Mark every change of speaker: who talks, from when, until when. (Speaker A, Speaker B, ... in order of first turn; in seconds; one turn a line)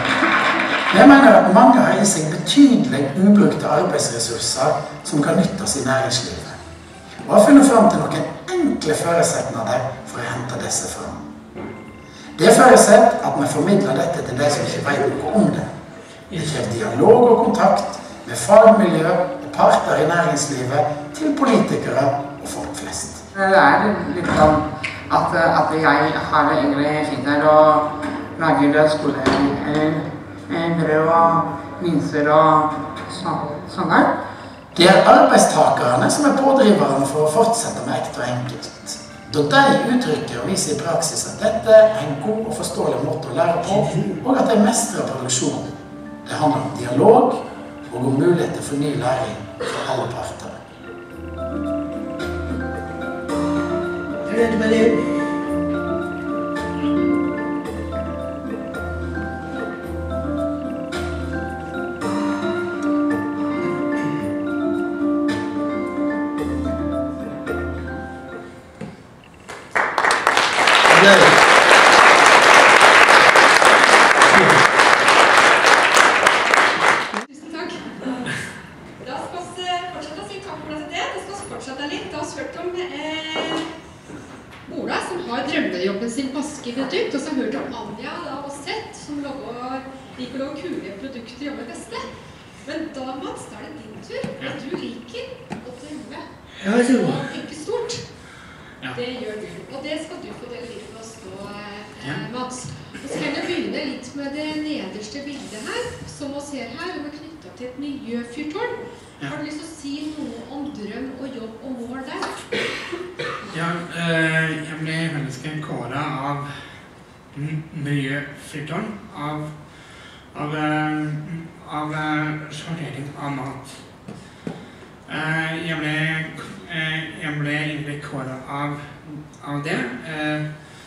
Speaker A: 0.9-6.6
Speaker A: 7.2-11.2
Speaker A: 12.3-15.7
Speaker A: 16.3-23.2
Speaker B: 23.3-34.1
Speaker A: 34.7-50.6
Speaker C: 43.7-44.2
Speaker C: 54.2-55.0
Speaker C: 70.9-71.3
Speaker C: 74.3-74.6
Speaker D: 77.2-78.3
Speaker D: 79.0-83.7
Speaker D: 84.7-92.0
Speaker D: 92.7-96.2
Speaker C: 96.6-97.2
Speaker D: 96.8-98.0
Speaker D: 98.9-112.4
Speaker E: 113.5-116.5
Speaker E: 117.3-119.5
Speaker E: 120.3-123.8
Speaker E: 125.1-130.4